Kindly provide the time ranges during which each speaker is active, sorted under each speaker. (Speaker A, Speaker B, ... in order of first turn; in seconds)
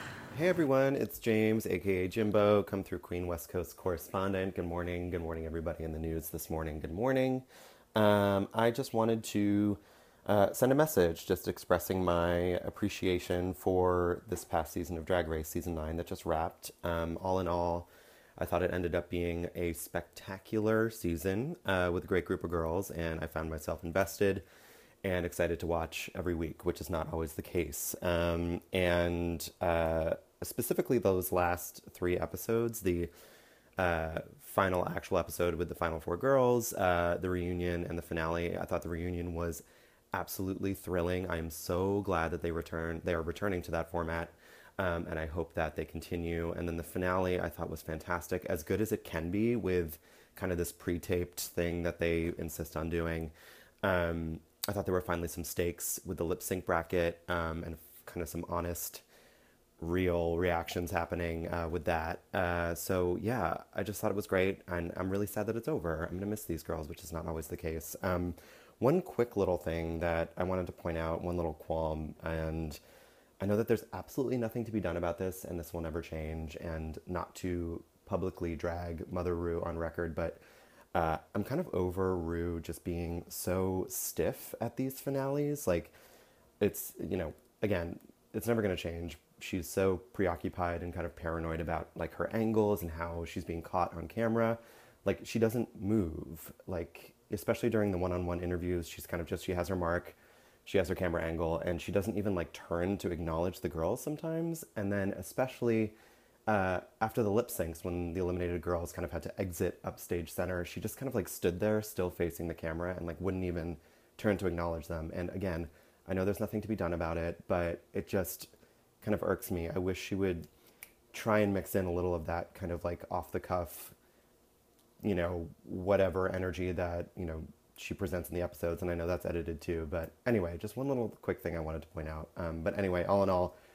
Speaker A: 0.3-24.4, 25.0-33.1, 33.8-39.6, 40.1-53.3, 53.8-59.0, 59.8-72.8, 73.4-80.4, 80.9-85.9, 86.6-106.0, 106.5-118.5, 119.0-120.5, 121.1-123.9, 125.0-133.6